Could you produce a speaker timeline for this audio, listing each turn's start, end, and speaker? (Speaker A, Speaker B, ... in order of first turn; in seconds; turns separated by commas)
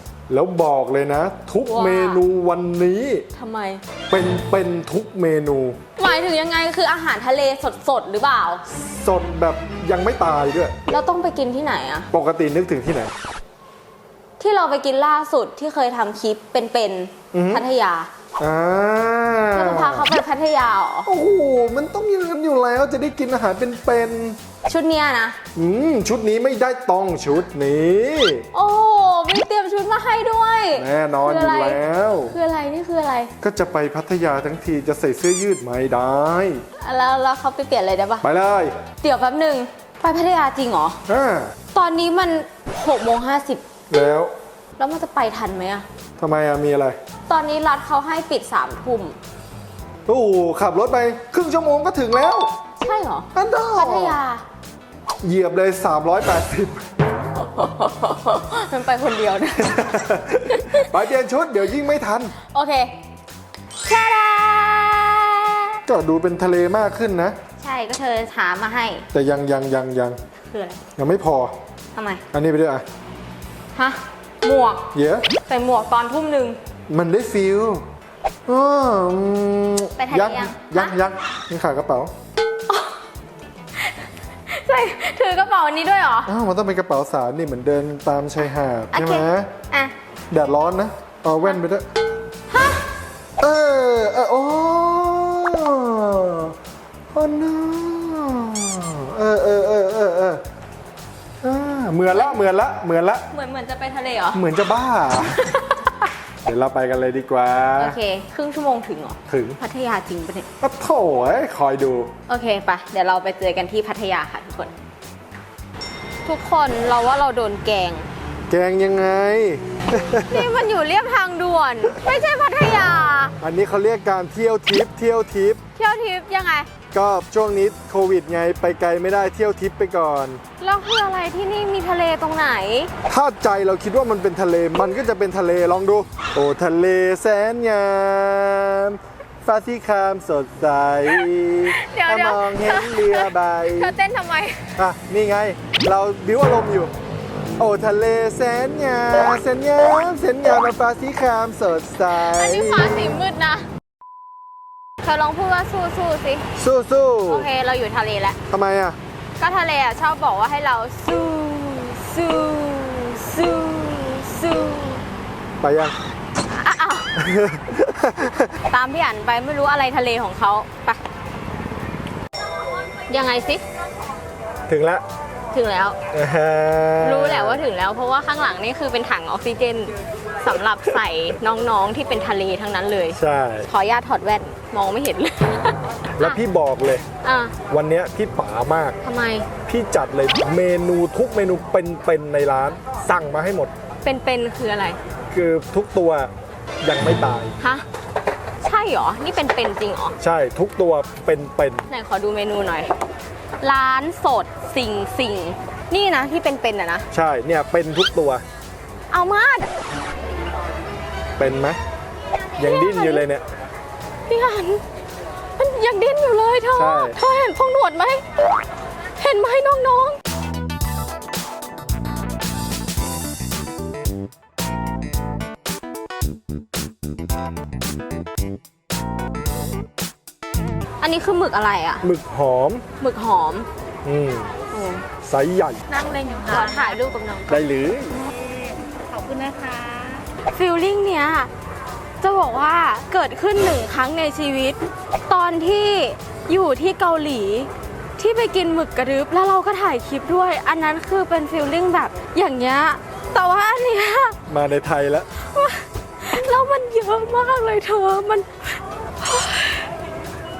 Speaker A: 0.3-3.2, Speaker B: 1.6-2.2, Speaker B: 3.3-3.8, Speaker A: 4.1-5.8, Speaker B: 6.0-8.6, Speaker A: 8.7-10.7, Speaker B: 10.9-12.1, Speaker A: 12.1-13.1, Speaker B: 14.4-18.1, Speaker A: 17.3-17.7, Speaker A: 18.4-20.1, Speaker B: 19.5-21.1, Speaker A: 21.1-24.4, Speaker B: 24.6-25.4, Speaker A: 25.5-28.5, Speaker B: 28.5-33.3, Speaker A: 30.7-32.3, Speaker A: 33.4-36.6, Speaker B: 36.8-38.2, Speaker A: 38.2-38.7, Speaker B: 39.0-41.0, Speaker A: 41.0-41.5, Speaker B: 41.7-43.6, Speaker A: 43.9-44.3, Speaker B: 44.8-45.9, Speaker A: 46.2-47.0, Speaker B: 47.3-49.2, Speaker A: 50.1-52.5, Speaker B: 52.8-54.4, Speaker A: 53.3-54.2, Speaker A: 55.2-56.8, Speaker B: 57.3-59.8, Speaker A: 59.7-62.3, Speaker B: 60.5-60.9, Speaker B: 62.5-62.9, Speaker B: 63.8-65.8, Speaker A: 65.8-67.3, Speaker B: 67.6-69.0, Speaker A: 69.1-70.2, Speaker B: 70.5-70.8, Speaker A: 71.0-71.5, Speaker B: 71.9-72.2, Speaker A: 72.3-72.8, Speaker B: 73.7-74.8, Speaker A: 74.9-75.3, Speaker B: 75.4-76.6, Speaker A: 76.9-77.8, Speaker A: 78.5-82.1, Speaker B: 80.0-80.9, Speaker B: 82.7-83.0, Speaker B: 84.5-86.3, Speaker A: 86.2-89.5, Speaker B: 88.9-89.9, Speaker A: 90.3-91.8, Speaker B: 92.5-92.8, Speaker A: 93.4-96.5, Speaker A: 97.1-100.4, Speaker A: 101.4-103.2, Speaker B: 102.1-102.4, Speaker B: 103.3-104.4, Speaker A: 104.3-105.4, Speaker B: 105.2-106.1, Speaker A: 106.4-108.0, Speaker B: 107.8-110.5, Speaker A: 109.3-109.6, Speaker A: 110.6-112.1, Speaker B: 112.3-114.7, Speaker B: 116.2-118.1, Speaker A: 118.5-120.5, Speaker B: 120.2-123.3, Speaker A: 123.4-125.6, Speaker B: 125.8-126.7, Speaker A: 126.9-130.4, Speaker B: 130.6-132.9, Speaker A: 133.1-143.9, Speaker B: 141.1-144.7, Speaker A: 144.8-146.9, Speaker A: 147.6-153.0, Speaker B: 152.1-153.7, Speaker B: 155.0-156.4, Speaker A: 156.6-157.5, Speaker B: 157.3-158.4, Speaker A: 158.5-159.0, Speaker B: 159.4-165.0, Speaker A: 165.6-165.9, Speaker B: 166.4-167.1, Speaker A: 167.2-168.5, Speaker B: 168.7-171.0, Speaker B: 173.1-173.6, Speaker A: 174.7-175.0, Speaker B: 175.5-176.0, Speaker A: 176.1-177.6, Speaker B: 177.0-186.4, Speaker A: 183.1-183.7, Speaker A: 186.2-187.0, Speaker B: 187.2-187.5, Speaker A: 187.7-189.0, Speaker B: 189.0-189.5, Speaker A: 189.7-193.7, Speaker B: 194.0-195.0, Speaker A: 195.3-196.3, Speaker A: 196.8-197.6, Speaker B: 197.6-197.8, Speaker B: 198.6-200.1, Speaker A: 200.2-201.8, Speaker B: 201.9-202.9, Speaker B: 203.6-207.0, Speaker A: 207.1-208.4, Speaker B: 209.1-209.7, Speaker A: 211.4-211.8, Speaker A: 212.6-213.4, Speaker B: 212.6-213.2, Speaker B: 214.3-214.8, Speaker B: 215.6-218.2, Speaker A: 216.7-217.2, Speaker B: 219.2-220.2, Speaker B: 231.0-232.1, Speaker A: 232.0-232.8, Speaker B: 233.0-233.7, Speaker A: 234.0-234.5, Speaker B: 234.7-235.1, Speaker A: 235.2-235.8, Speaker B: 235.9-237.6, Speaker A: 237.5-238.2, Speaker B: 239.1-241.5, Speaker B: 242.2-254.3, Speaker A: 254.5-255.3, Speaker B: 255.4-259.9